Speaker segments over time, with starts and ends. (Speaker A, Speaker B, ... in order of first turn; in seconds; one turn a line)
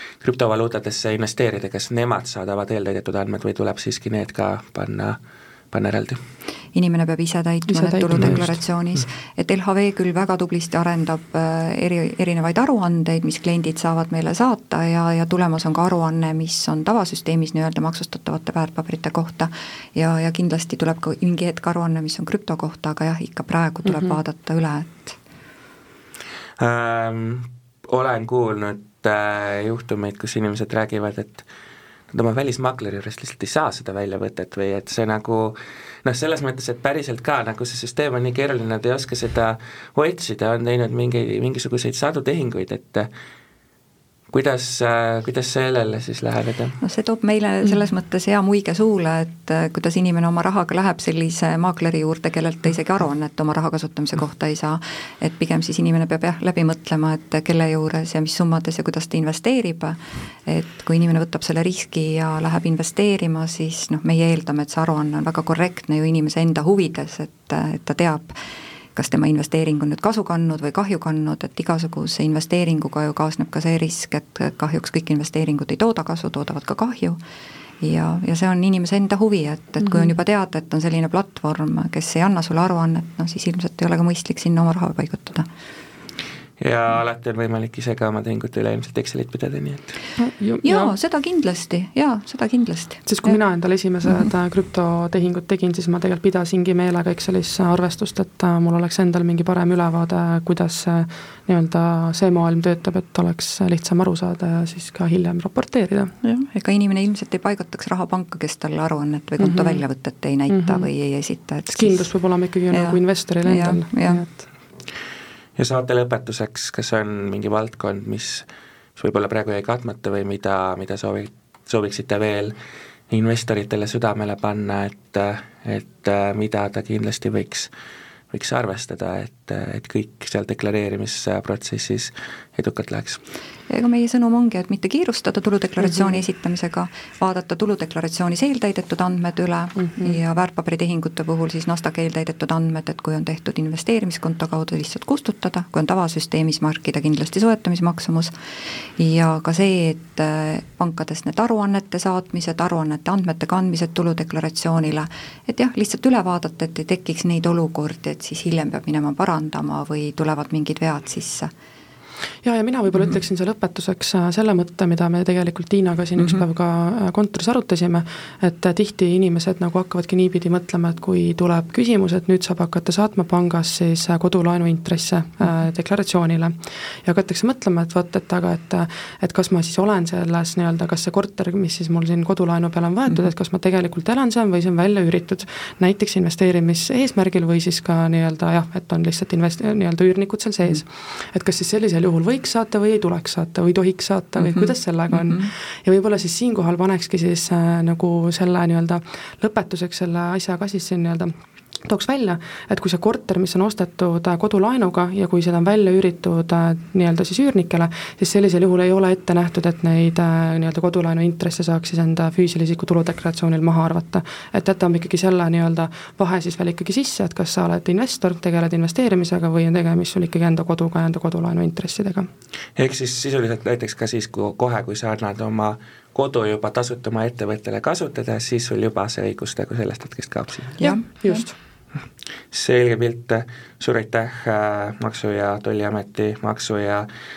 Speaker A: 0.2-5.2
Speaker A: 5.7-6.2
Speaker B: 6.7-25.2
Speaker C: 7.7-8.6
Speaker A: 26.6-31.5
Speaker A: 32.1-43.1
Speaker A: 44.3-46.8
Speaker B: 46.8-68.4
Speaker B: 68.9-77.2
Speaker B: 77.8-85.5
Speaker C: 79.8-80.1
Speaker A: 86.6-89.9
Speaker C: 90.2-90.9
Speaker B: 90.6-93.4
Speaker C: 93.0-106.1
Speaker B: 106.2-112.0
Speaker C: 109.4-109.8
Speaker C: 110.5-110.9
Speaker C: 111.7-114.3
Speaker B: 112.7-114.2
Speaker A: 115.6-122.5
Speaker A: 123.1-127.7
Speaker A: 128.3-133.2
Speaker B: 133.7-161.5
Speaker C: 139.8-140.1
Speaker C: 162.4-222.3
Speaker B: 166.2-166.4
Speaker A: 222.8-230.8
Speaker C: 230.8-231.5
Speaker B: 230.8-231.4
Speaker A: 232.5-237.1